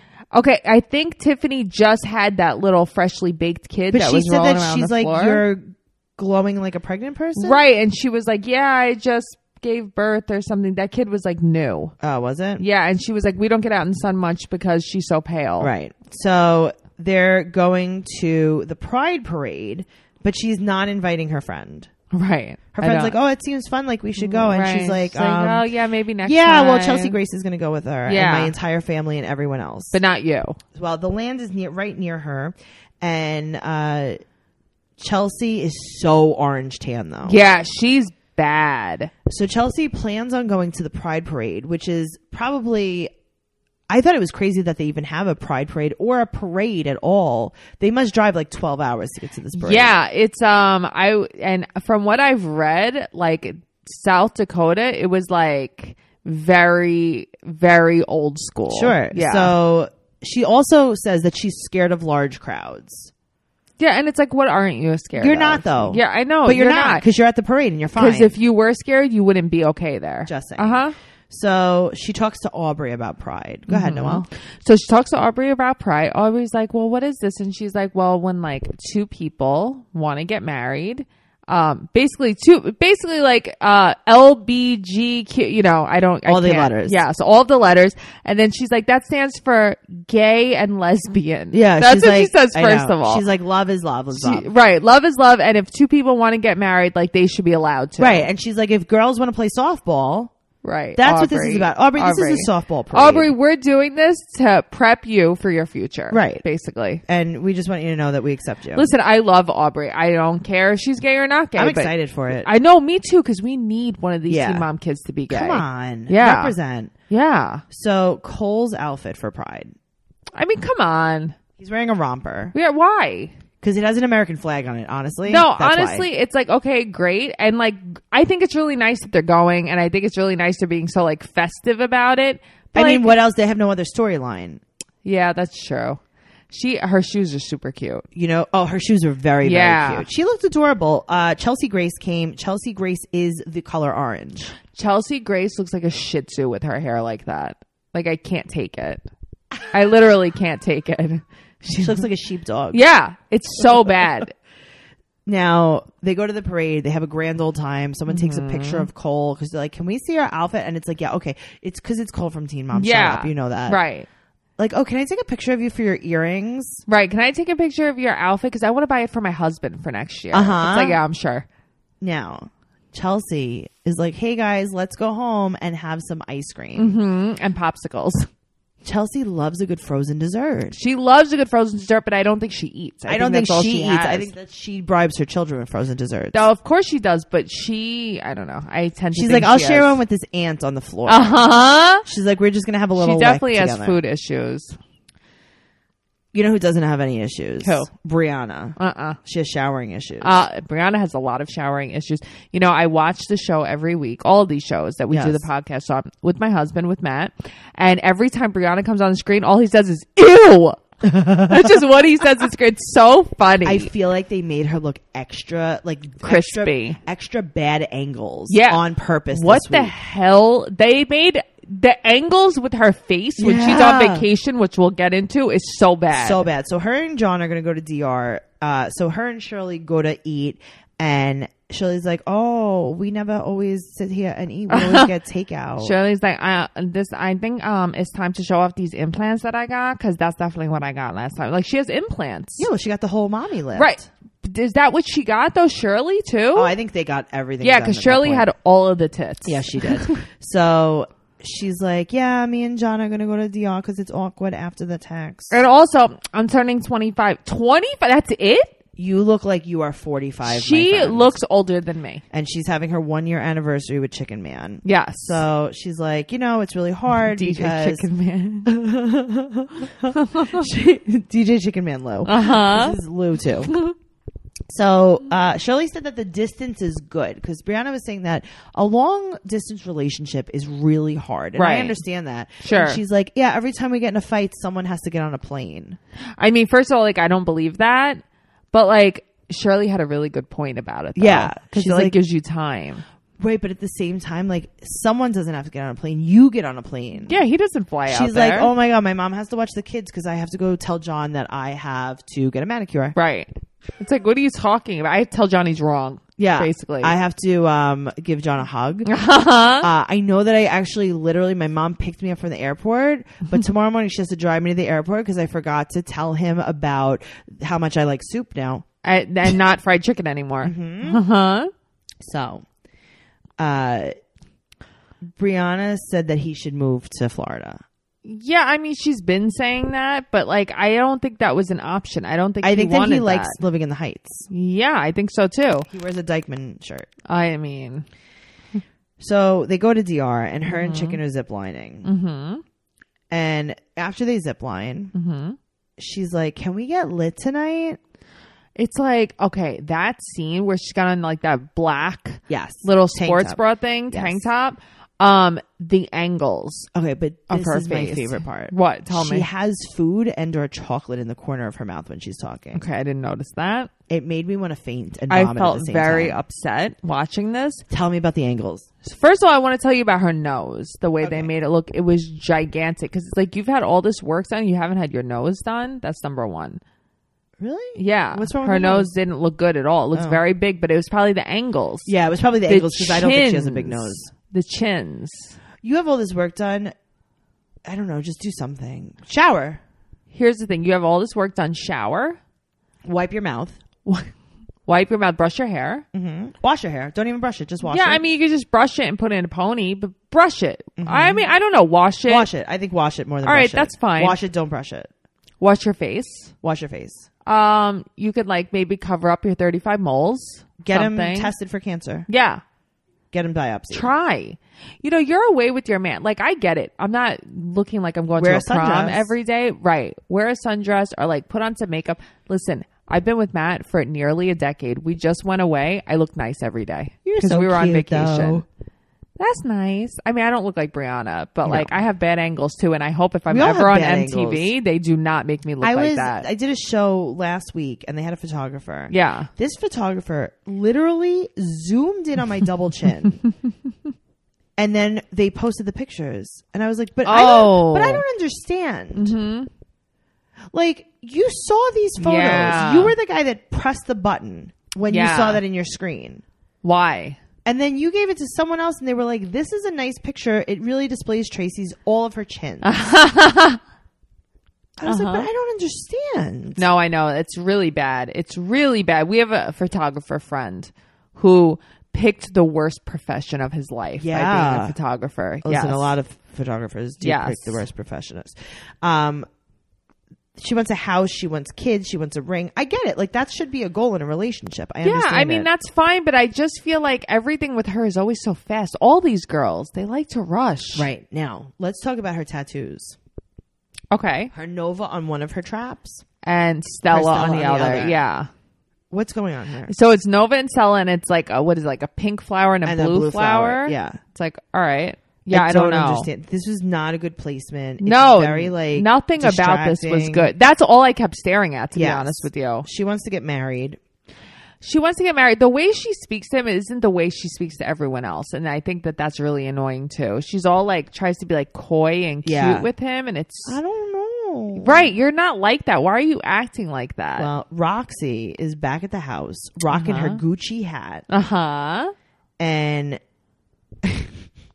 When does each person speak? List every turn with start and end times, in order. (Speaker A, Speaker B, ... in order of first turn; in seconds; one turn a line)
Speaker A: 0.3-5.4
Speaker B: 3.9-7.6
Speaker A: 7.3-11.9
Speaker B: 12.0-12.6
Speaker A: 12.6-15.7
Speaker B: 15.6-21.9
Speaker A: 22.1-23.2
Speaker B: 22.7-25.6
Speaker A: 24.2-27.2
Speaker B: 26.2-30.0
Speaker A: 28.1-28.5
Speaker A: 29.9-30.6
Speaker B: 30.7-34.2
Speaker B: 35.0-37.4
Speaker A: 37.2-39.1
Speaker B: 39.2-43.1
Speaker B: 43.9-49.9
Speaker A: 49.5-59.5
Speaker B: 58.7-63.1
Speaker A: 63.8-67.0
Speaker B: 65.2-68.3
Speaker A: 68.0-70.9
Speaker B: 70.3-74.2
Speaker A: 73.7-93.2
Speaker B: 86.2-87.0
Speaker B: 91.5-94.5
Speaker A: 94.1-98.2
Speaker B: 98.0-100.3
Speaker A: 100.6-107.0
Speaker B: 101.0-103.3
Speaker B: 106.1-106.4
Speaker B: 107.1-108.9
Speaker A: 108.7-116.5
Speaker B: 111.5-112.5
Speaker B: 114.3-114.7
Speaker B: 115.3-116.9
Speaker A: 117.1-117.6
Speaker B: 117.7-119.7
Speaker A: 120.3-121.3
Speaker B: 121.6-122.5
Speaker A: 122.5-123.3
Speaker B: 123.6-126.0
Speaker A: 125.3-133.1
Speaker B: 132.7-134.6
Speaker A: 135.0-138.1
Speaker B: 138.1-144.5
Speaker A: 139.4-140.1
Speaker A: 144.7-149.0
Speaker A: 149.7-152.1
Speaker B: 151.7-152.8
Speaker A: 152.7-154.3
Speaker B: 153.7-154.0
Speaker B: 155.2-163.8
Speaker A: 158.1-158.9
Speaker A: 162.7-164.1
Speaker B: 164.6-166.8
Speaker A: 166.9-171.4
Speaker B: 170.3-171.0
Speaker B: 172.0-177.0
Speaker A: 176.8-178.3
Speaker B: 178.8-180.8
Speaker A: 180.7-184.3
Speaker B: 183.1-186.5
Speaker A: 186.3-190.0
Speaker B: 189.1-191.4
Speaker A: 191.1-192.0
Speaker B: 192.0-194.0
Speaker A: 192.9-194.8
Speaker B: 196.3-200.4
Speaker A: 197.6-197.9
Speaker A: 198.8-199.2
Speaker A: 200.2-213.9
Speaker B: 205.1-205.5
Speaker B: 211.2-211.6
Speaker B: 213.6-219.9
Speaker A: 216.2-217.0
Speaker A: 218.5-226.4
Speaker B: 223.4-224.3
Speaker B: 226.1-235.9
Speaker A: 234.7-235.1
Speaker A: 235.8-242.7
Speaker B: 242.6-244.0
Speaker A: 243.8-246.7
Speaker B: 246.5-248.5
Speaker A: 247.6-250.2
Speaker B: 249.4-255.6
Speaker A: 255.5-258.7
Speaker B: 259.0-261.4
Speaker A: 260.4-262.2
Speaker B: 262.3-268.1
Speaker A: 264.8-265.4
Speaker A: 267.1-268.7
Speaker B: 268.6-273.7
Speaker A: 270.1-270.6
Speaker A: 272.2-273.0
Speaker A: 273.7-273.9
Speaker B: 274.7-286.0
Speaker A: 281.6-282.0
Speaker A: 282.6-283.0
Speaker A: 286.4-293.0
Speaker B: 291.1-292.1
Speaker B: 293.4-297.4
Speaker A: 297.2-298.7
Speaker B: 298.1-303.1
Speaker A: 303.1-307.1
Speaker B: 306.4-309.1
Speaker A: 309.1-309.9
Speaker B: 309.8-318.8
Speaker A: 319.0-321.7
Speaker B: 320.6-321.2
Speaker B: 322.2-322.6
Speaker B: 323.6-324.1
Speaker B: 325.4-327.8
Speaker A: 328.2-333.6
Speaker B: 332.6-334.5
Speaker A: 334.5-335.9
Speaker B: 335.9-337.1
Speaker A: 337.2-338.1
Speaker B: 339.2-342.1
Speaker A: 340.6-341.2
Speaker A: 342.0-342.6
Speaker B: 343.3-345.1
Speaker A: 345.1-345.6
Speaker B: 346.0-348.0
Speaker A: 348.8-356.9
Speaker B: 352.5-353.6
Speaker B: 354.1-354.4
Speaker B: 356.9-362.8
Speaker A: 357.5-359.5
Speaker A: 362.7-363.9
Speaker B: 364.1-366.4
Speaker A: 365.3-367.8
Speaker B: 367.9-368.9
Speaker A: 369.0-376.8
Speaker B: 371.2-371.5
Speaker B: 377.6-379.1
Speaker A: 378.0-382.1
Speaker B: 380.1-380.4
Speaker B: 382.1-384.3
Speaker A: 382.7-385.6
Speaker B: 385.8-386.9
Speaker B: 387.9-389.8
Speaker A: 390.3-392.4
Speaker B: 393.1-393.8
Speaker A: 394.1-394.3
Speaker A: 394.9-396.0
Speaker B: 396.1-398.2
Speaker A: 397.8-402.5
Speaker B: 401.0-401.5
Speaker B: 402.3-405.1
Speaker A: 403.4-404.4
Speaker A: 405.6-406.5
Speaker B: 406.6-407.3
Speaker A: 407.4-411.5
Speaker B: 410.8-412.3
Speaker A: 412.3-412.6
Speaker B: 413.3-414.1
Speaker A: 413.9-428.6
Speaker B: 418.4-419.3
Speaker B: 427.2-428.6
Speaker A: 429.4-436.5
Speaker B: 431.6-431.9
Speaker B: 433.5-434.7
Speaker B: 435.8-443.4
Speaker A: 439.1-439.5
Speaker B: 444.8-449.3
Speaker A: 447.2-448.2
Speaker A: 449.1-449.7
Speaker B: 450.7-456.4
Speaker A: 452.2-453.1
Speaker A: 455.1-455.6
Speaker A: 456.8-457.4
Speaker B: 457.6-462.9
Speaker A: 462.8-463.8
Speaker B: 465.0-466.8
Speaker A: 465.1-465.5
Speaker A: 466.8-476.1
Speaker B: 474.2-474.9
Speaker B: 475.6-479.5
Speaker A: 477.2-477.8
Speaker B: 480.6-485.7
Speaker A: 485.0-491.1
Speaker B: 490.9-493.2
Speaker A: 494.1-494.5
Speaker B: 494.5-496.2
Speaker A: 496.4-498.5
Speaker B: 497.1-498.2
Speaker B: 499.1-499.9
Speaker A: 499.9-506.3
Speaker B: 502.8-504.2
Speaker B: 505.5-510.5
Speaker A: 508.0-512.9
Speaker B: 511.9-514.0
Speaker A: 514.8-523.8
Speaker B: 522.4-522.9
Speaker B: 523.6-525.1
Speaker A: 524.8-527.5
Speaker B: 527.4-531.2
Speaker A: 529.9-530.4
Speaker A: 531.3-532.1
Speaker B: 532.6-533.2
Speaker B: 534.0-534.3